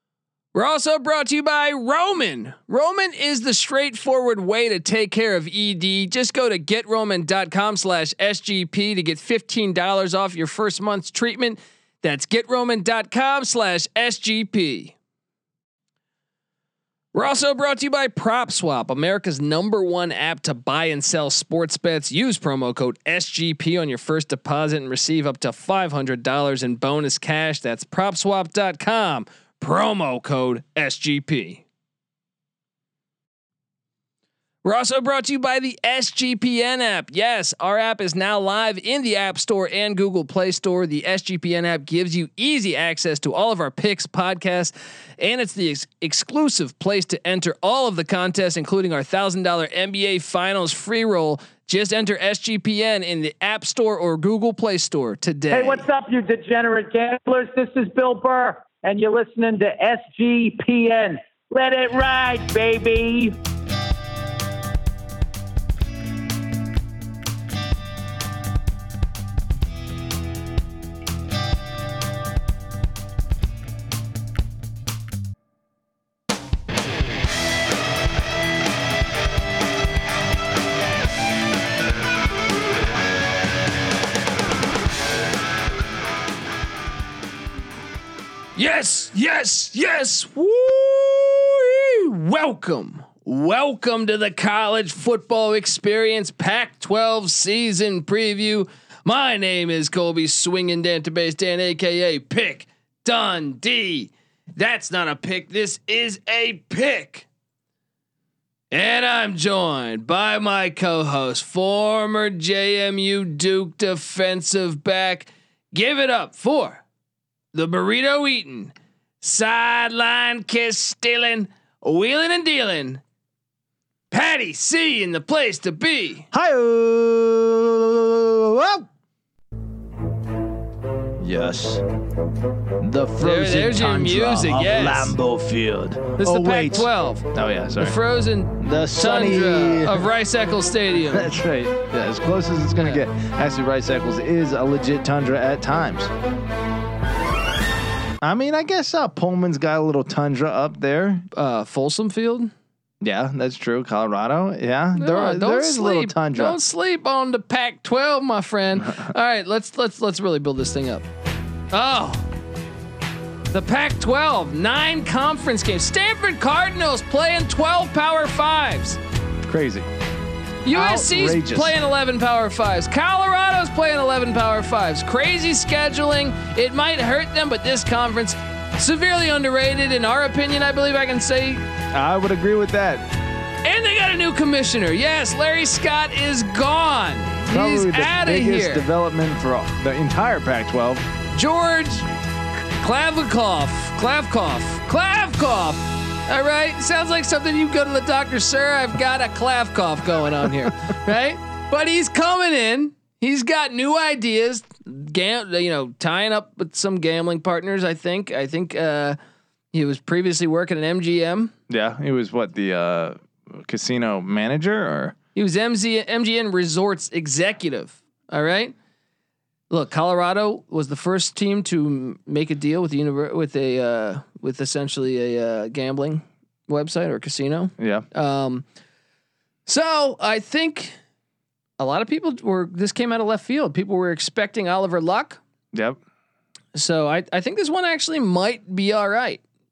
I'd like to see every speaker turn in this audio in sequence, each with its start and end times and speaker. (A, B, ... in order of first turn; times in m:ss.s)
0:00.5-0:15.0 A
0:17.1-0:31.6 A
0:34.6-0:55.8 A
0:55.5-1:03.3 B
1:28.6-1:47.3 A
1:48.7-1:56.8 A
1:57.5-2:03.0 A
2:04.1-2:06.3 A
2:06.3-2:08.9 C
2:11.2-2:11.8 C
2:12.8-2:18.0 C
2:13.2-2:15.2 A
2:16.2-2:21.3 A
2:18.6-2:20.1 C
2:21.1-2:26.1 C
2:28.2-2:31.3 C
2:31.3-2:32.5 A
2:33.0-2:36.6 C
2:35.0-2:41.1 A
2:41.7-2:42.3 A
2:43.5-2:49.0 A
2:49.4-2:49.9 C
2:50.6-3:01.6 A
2:50.7-2:51.8 C
3:01.9-3:03.0 C
3:03.6-3:08.8 A
3:07.5-3:11.1 C
3:11.3-3:12.1 A
3:12.8-3:29.2 A
3:29.7-3:31.5 A
3:31.7-3:35.2 C
3:35.4-3:38.7 A
3:39.7-3:48.6 A
3:47.8-3:48.1 C
3:49.7-3:50.9 A
3:51.8-3:55.4 A
3:55.7-3:56.0 C
3:56.7-3:59.4 A